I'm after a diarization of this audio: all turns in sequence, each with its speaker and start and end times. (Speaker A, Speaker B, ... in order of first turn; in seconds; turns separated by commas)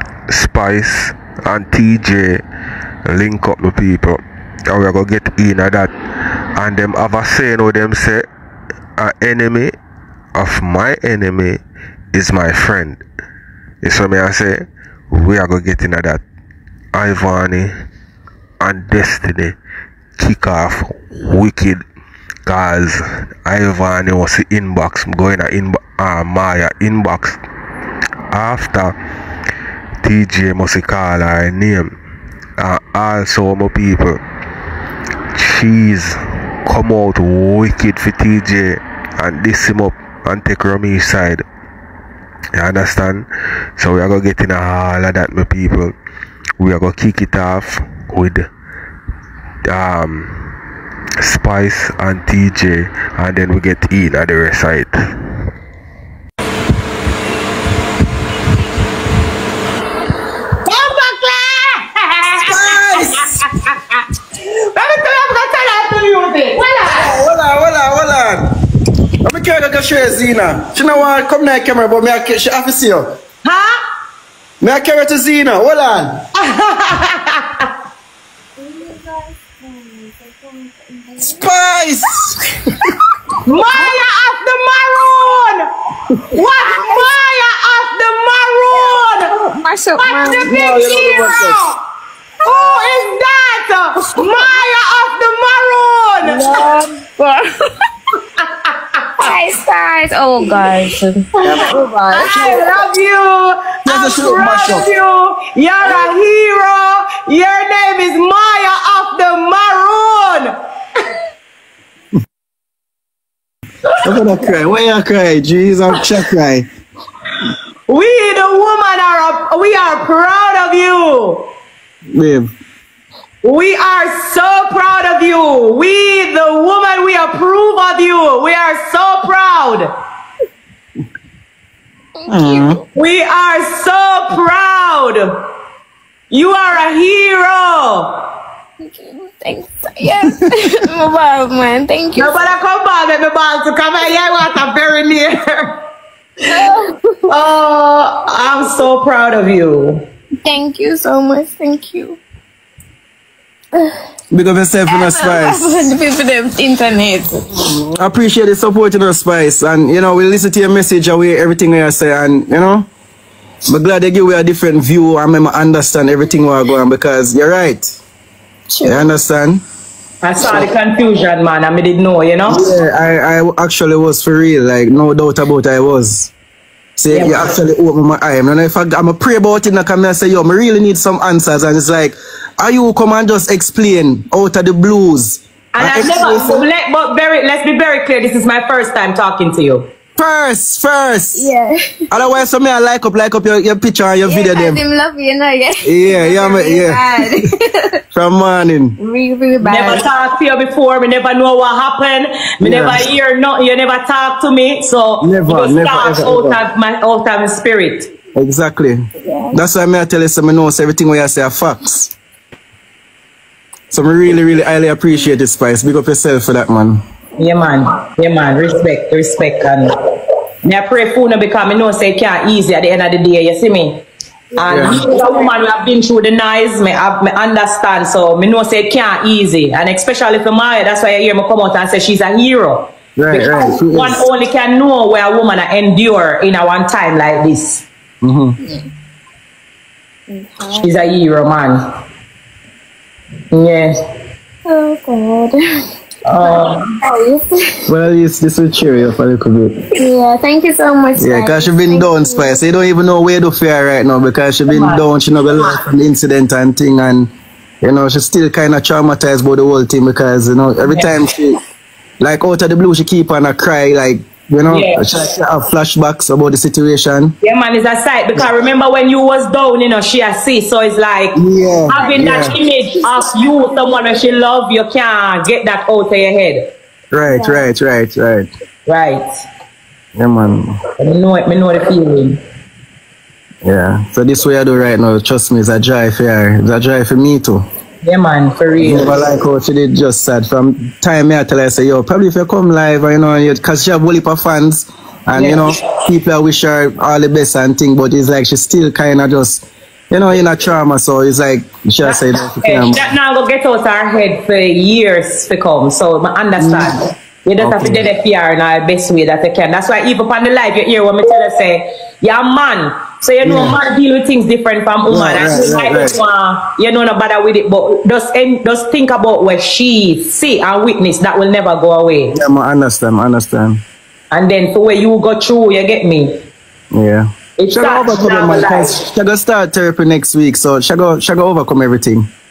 Speaker A: 0.3-2.4, Speaker A: 3.0-5.9, Speaker A: 6.5-8.3, Speaker A: 9.0-9.8, Speaker A: 10.3-11.6, Speaker A: 12.1-13.0, Speaker A: 13.8-16.2, Speaker A: 16.9-17.7, Speaker A: 18.6-19.5, Speaker A: 20.2-21.8, Speaker A: 22.4-27.4, Speaker A: 28.3-28.9, Speaker A: 30.0-31.9, Speaker A: 32.6-34.2, Speaker A: 35.3-41.4, Speaker A: 42.5-45.9, Speaker A: 46.6-48.5, Speaker A: 49.6-50.5, Speaker A: 51.2-55.0, Speaker B: 60.6-63.8, Speaker C: 62.5-63.4, Speaker B: 64.7-67.1, Speaker C: 66.8-68.5, Speaker C: 69.2-73.2, Speaker B: 73.4-73.8, Speaker C: 74.6-76.2, Speaker B: 76.3-77.7, Speaker D: 80.7-81.5, Speaker C: 81.2-82.4, Speaker B: 83.5-85.7, Speaker B: 86.3-89.3, Speaker D: 86.6-87.1, Speaker D: 88.7-91.5, Speaker B: 90.0-91.7, Speaker C: 90.5-91.5, Speaker B: 92.4-96.7, Speaker D: 96.2-97.5, Speaker D: 99.2-102.8, Speaker B: 101.5-110.5, Speaker C: 103.8-104.9, Speaker C: 114.0-116.7, Speaker B: 117.9-121.5, Speaker C: 122.1-122.5, Speaker B: 123.4-129.9, Speaker D: 132.2-132.8, Speaker C: 132.3-132.8, Speaker B: 132.9-135.4, Speaker B: 136.3-138.3, Speaker D: 138.8-142.4, Speaker B: 142.2-145.8, Speaker D: 146.5-147.3, Speaker B: 147.3-150.1, Speaker D: 150.4-152.2, Speaker C: 154.3-155.8, Speaker D: 154.9-157.7, Speaker C: 157.9-162.9, Speaker C: 163.7-168.0, Speaker D: 168.7-169.1, Speaker C: 168.8-169.6, Speaker B: 170.2-172.6, Speaker C: 172.5-176.3, Speaker C: 177.0-186.6, Speaker B: 177.1-177.5, Speaker B: 185.7-189.9, Speaker C: 190.2-191.5, Speaker D: 191.3-191.8, Speaker C: 192.1-194.8, Speaker D: 194.2-198.0, Speaker C: 195.8-197.2, Speaker C: 198.1-199.0, Speaker D: 199.0-200.1, Speaker B: 199.6-208.1, Speaker C: 202.6-203.1, Speaker C: 205.2-206.6, Speaker C: 208.3-212.1, Speaker D: 209.2-209.6, Speaker C: 213.9-217.0, Speaker B: 217.4-220.0, Speaker B: 220.6-237.8, Speaker C: 224.7-225.0, Speaker C: 233.2-234.2, Speaker C: 238.2-238.6, Speaker D: 240.3-241.0, Speaker B: 240.8-241.9, Speaker B: 243.5-244.0, Speaker D: 244.7-245.5, Speaker B: 246.4-246.9, Speaker D: 246.4-247.8, Speaker C: 247.9-249.8, Speaker D: 249.9-252.6, Speaker C: 251.2-261.6, Speaker B: 254.7-255.0, Speaker C: 262.2-267.4, Speaker B: 264.7-265.0, Speaker B: 267.4-271.4, Speaker C: 271.3-272.5, Speaker B: 271.9-276.7, Speaker D: 272.0-274.0, Speaker C: 277.1-278.5, Speaker D: 277.3-277.6, Speaker B: 278.9-279.3, Speaker C: 280.1-280.8, Speaker B: 281.0-282.4, Speaker C: 283.6-287.7, Speaker B: 288.0-289.3, Speaker C: 288.8-303.0, Speaker B: 295.3-295.7, Speaker B: 302.0-322.4, Speaker C: 306.6-306.9, Speaker C: 307.6-308.1, Speaker C: 313.4-313.8, Speaker C: 315.1-316.2, Speaker C: 322.3-323.8, Speaker B: 324.3-326.4, Speaker C: 326.9-332.3, Speaker B: 327.6-329.0